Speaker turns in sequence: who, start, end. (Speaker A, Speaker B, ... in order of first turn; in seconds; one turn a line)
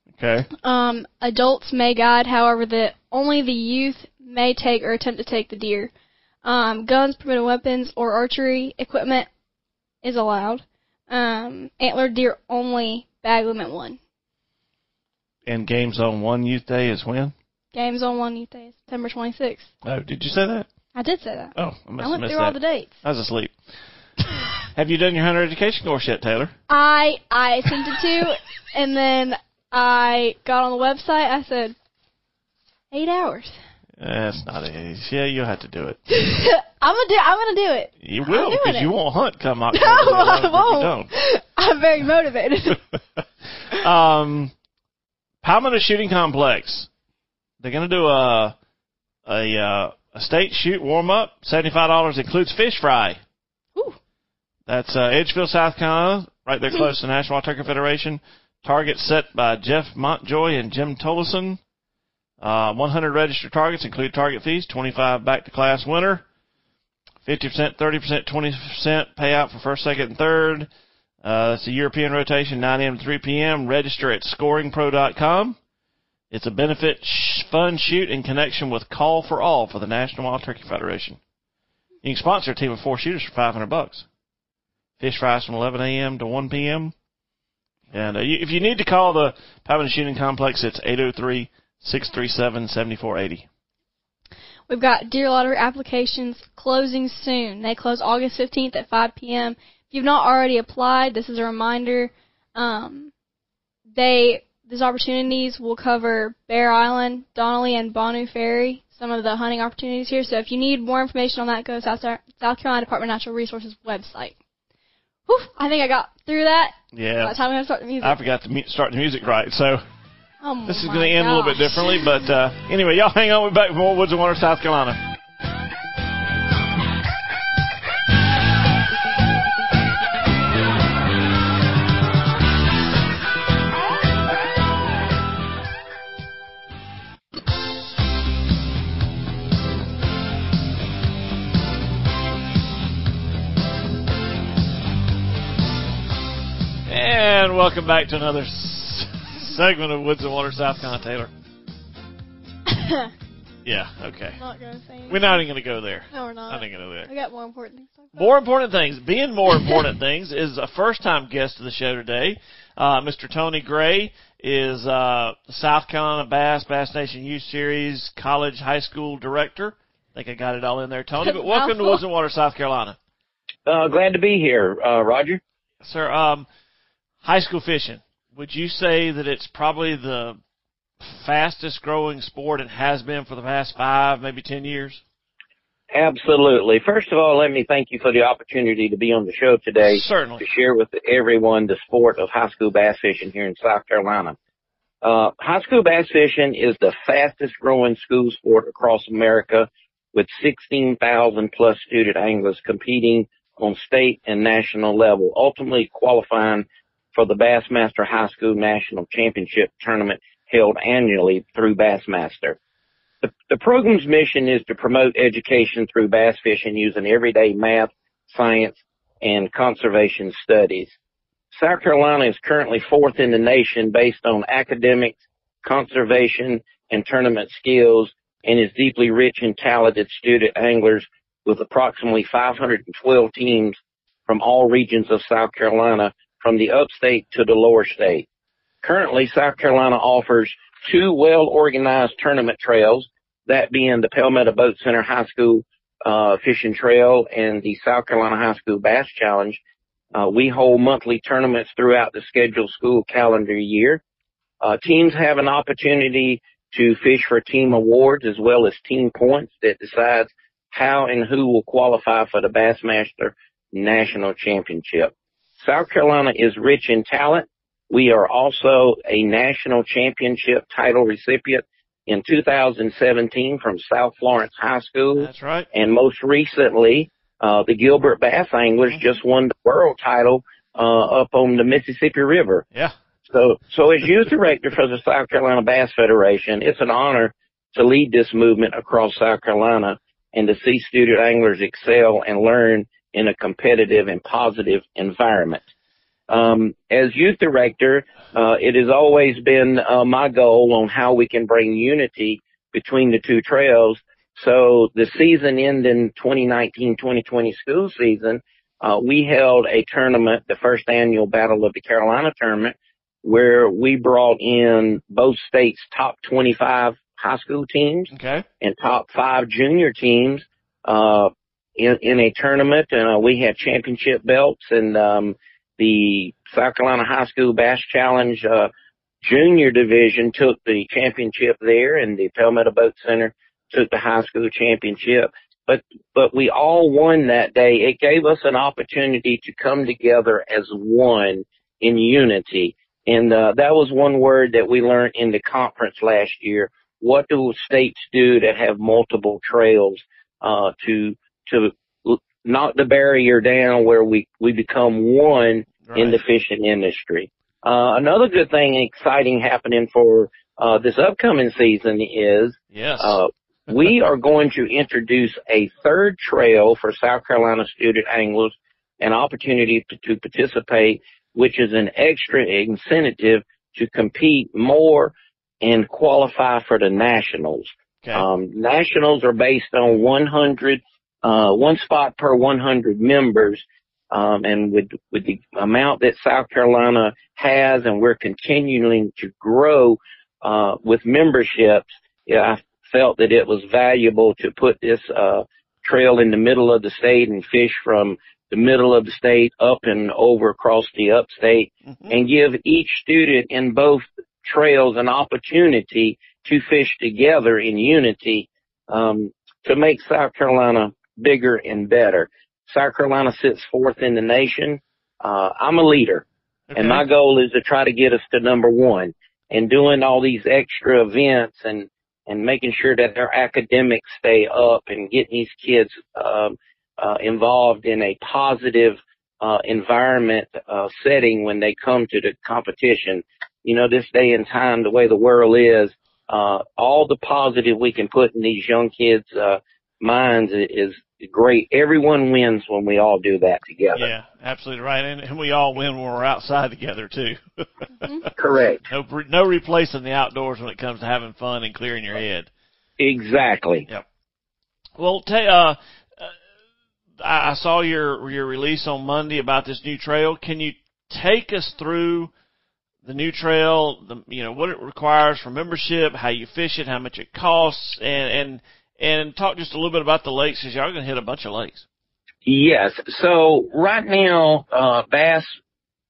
Speaker A: 0.2-0.5
Speaker B: 0.6-5.9
Speaker B: 6.4-9.3
Speaker B: 10.0-14.0
Speaker A: 15.5-17.3
Speaker B: 17.7-19.7
Speaker A: 19.8-20.7
Speaker B: 20.9-22.9
Speaker A: 21.5-23.5
Speaker A: 24.6-26.5
Speaker B: 26.7-31.8
Speaker B: 32.9-33.6
Speaker A: 34.0-36.0
Speaker B: 36.1-38.9
Speaker A: 38.0-41.1
Speaker B: 39.7-42.8
Speaker A: 43.7-44.5
Speaker A: 45.4-46.9
Speaker A: 47.6-48.5
Speaker A: 49.2-53.2
Speaker A: 54.7-61.6
Speaker A: 62.4-66.2
Speaker A: 67.2-70.7
Speaker A: 71.2-75.6
Speaker A: 76.3-81.2
Speaker A: 82.0-84.0
Speaker A: 85.0-86.9
Speaker A: 87.9-93.5
Speaker B: 94.7-103.1
Speaker B: 104.0-114.3
Speaker B: 115.3-118.2
Speaker A: 116.9-117.3
Speaker A: 118.0-119.8
Speaker B: 120.4-122.0
Speaker A: 120.7-125.0
Speaker A: 146.9-151.3
Speaker B: 152.7-153.1
Speaker A: 153.6-154.4
Speaker B: 154.4-155.4
Speaker A: 155.1-157.1
Speaker B: 156.1-158.3
Speaker A: 158.2-173.0
Speaker B: 171.2-172.0
Speaker C: 173.7-175.4
Speaker A: 175.8-176.4
Speaker A: 177.2-180.4
Speaker A: 181.0-185.0
Speaker C: 185.9-194.3
Speaker A: 189.8-190.4
Speaker C: 195.0-212.6
Speaker C: 213.2-220.9
Speaker C: 221.5-233.8
Speaker C: 234.3-238.2
Speaker C: 238.8-249.6
Speaker C: 250.1-254.0
Speaker C: 254.6-282.6
Speaker A: 275.2-275.7
Speaker C: 283.3-295.6
Speaker C: 296.3-328.7
Speaker A: 318.1-318.4
Speaker C: 329.2-416.2
Speaker A: 355.8-356.2
Speaker A: 362.7-363.2
Speaker A: 416.7-417.0
Speaker C: 416.8-444.1
Speaker A: 443.9-448.2
Speaker C: 448.3-448.8
Speaker A: 448.9-452.5
Speaker C: 453.0-453.9
Speaker A: 455.0-456.3
Speaker A: 457.2-462.3
Speaker A: 463.0-471.8
Speaker C: 472.4-475.5